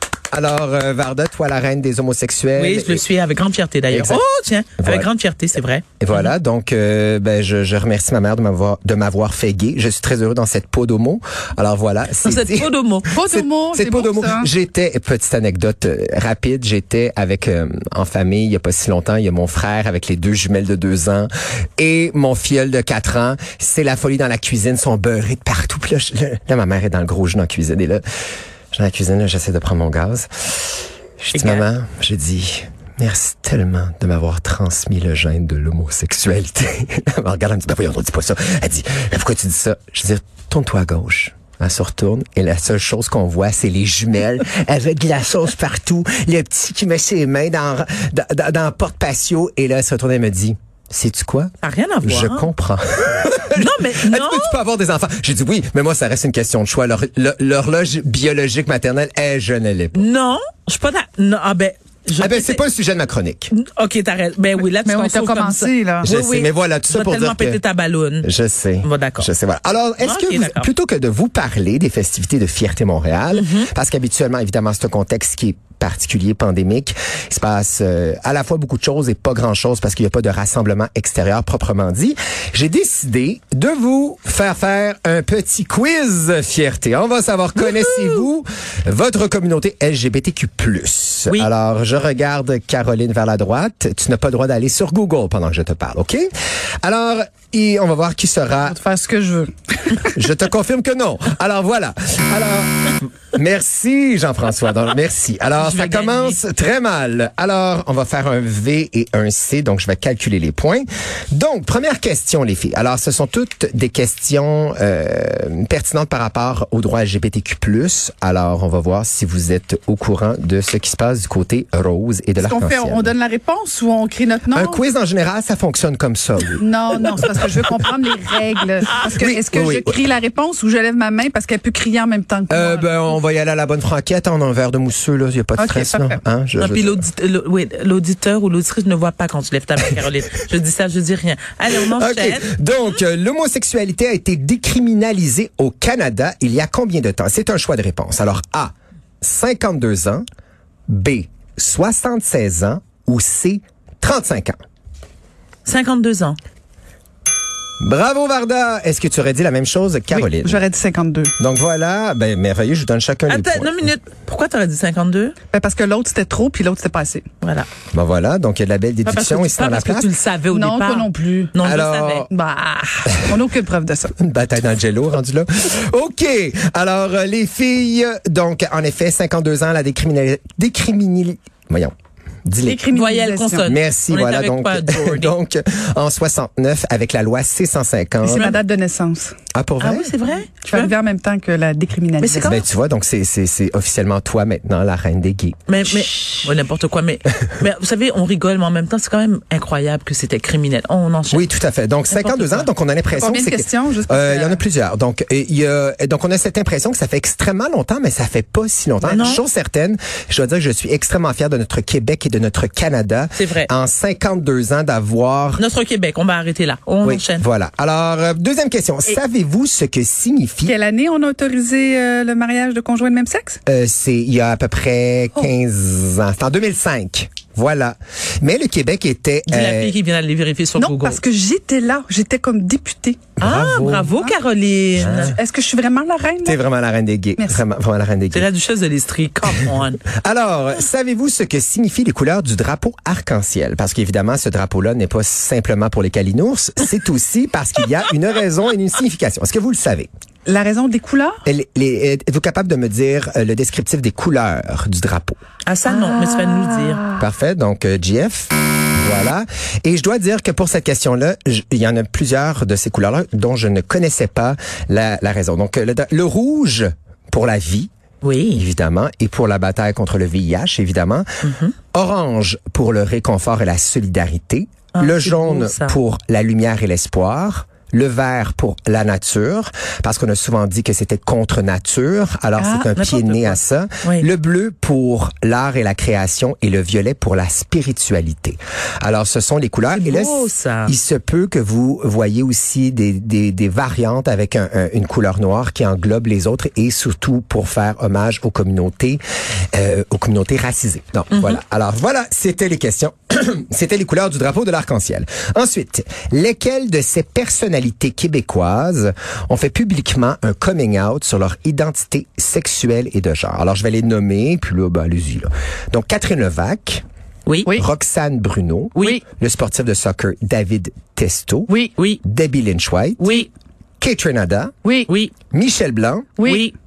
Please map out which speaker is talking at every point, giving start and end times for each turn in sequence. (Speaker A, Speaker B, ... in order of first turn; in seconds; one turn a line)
Speaker A: 0.3-3.0
Speaker B: 2.6-6.3
Speaker A: 3.9-4.2
Speaker A: 4.8-5.1
Speaker A: 6.0-28.0
Speaker B: 12.2-13.1
Speaker C: 13.1-14.5
Speaker A: 28.7-51.5
Speaker B: 31.3-31.7
Speaker B: 51.6-52.5
Speaker A: 52.0-60.0
Speaker B: 53.5-54.6
Speaker B: 60.0-62.6
Speaker A: 62.2-63.5
Speaker B: 63.5-68.3
Speaker C: 64.8-66.1
Speaker A: 66.0-67.6
Speaker A: 68.2-96.3
Speaker B: 68.8-69.3
Speaker B: 70.0-70.7
Speaker B: 73.3-73.7
Speaker A: 96.8-98.8
Speaker C: 98.6-100.2
Speaker A: 100.2-123.1
Speaker B: 105.6-106.4
Speaker C: 122.4-124.8
Speaker A: 124.5-127.4
Speaker C: 126.6-133.0
Speaker A: 129.0-129.9
Speaker A: 132.5-137.0
Speaker C: 135.6-136.2
Speaker B: 136.6-142.4
Speaker A: 141.8-150.2
Speaker A: 150.9-154.6
Speaker B: 155.6-156.4
Speaker A: 157.8-160.6
Speaker C: 160.1-161.3
Speaker A: 161.4-163.9
Speaker B: 163.3-165.3
Speaker C: 165.5-167.2
Speaker B: 167.4-167.7
Speaker A: 167.9-170.1
Speaker B: 169.0-172.3
Speaker C: 170.5-171.6
Speaker A: 171.6-172.3
Speaker C: 172.3-174.1
Speaker A: 174.2-181.9
Speaker A: 182.4-182.8
Speaker C: 182.6-183.8
Speaker B: 182.8-185.3
Speaker A: 183.6-188.5
Speaker C: 188.2-189.3
Speaker B: 188.2-188.6
Speaker A: 189.5-190.1
Speaker B: 189.8-190.9
Speaker C: 190.6-192.6
Speaker B: 192.2-192.7
Speaker A: 192.4-195.6
Speaker B: 195.7-201.5
Speaker A: 201.3-215.6
Speaker B: 202.1-202.7
Speaker C: 203.1-204.6
Speaker B: 209.0-209.4
Speaker B: 213.3-213.7
Speaker B: 215.6-217.4
Speaker A: 217.0-220.7
Speaker C: 220.6-223.6
Speaker A: 223.7-229.9
Speaker B: 229.5-231.2
Speaker C: 230.8-233.3
Speaker A: 233.4-234.1
Speaker B: 233.4-235.4
Speaker A: 234.9-235.4
Speaker C: 235.2-236.6
Speaker A: 236.4-238.5
Speaker C: 237.4-237.6
Speaker B: 238.3-240.0
Speaker A: 240.2-250.1
Speaker C: 250.4-251.4
Speaker A: 251.4-255.4
Speaker B: 255.7-257.1
Speaker A: 257.2-267.9
Speaker B: 268.2-268.6
Speaker A: 268.5-271.4
Speaker B: 271.4-271.7
Speaker A: 271.9-299.2
Speaker B: 274.9-276.0
Speaker B: 282.6-284.2
Speaker B: 289.9-290.9
Speaker A: 299.7-317.0
Speaker B: 317.4-317.8
Speaker A: 317.7-323.5
Speaker C: 321.7-321.9
Speaker B: 321.9-322.2
Speaker B: 323.2-323.5
Speaker A: 324.0-324.7
Speaker C: 324.8-325.1
Speaker B: 325.1-325.3
Speaker A: 325.5-326.4
Speaker C: 326.4-326.7
Speaker B: 326.4-326.7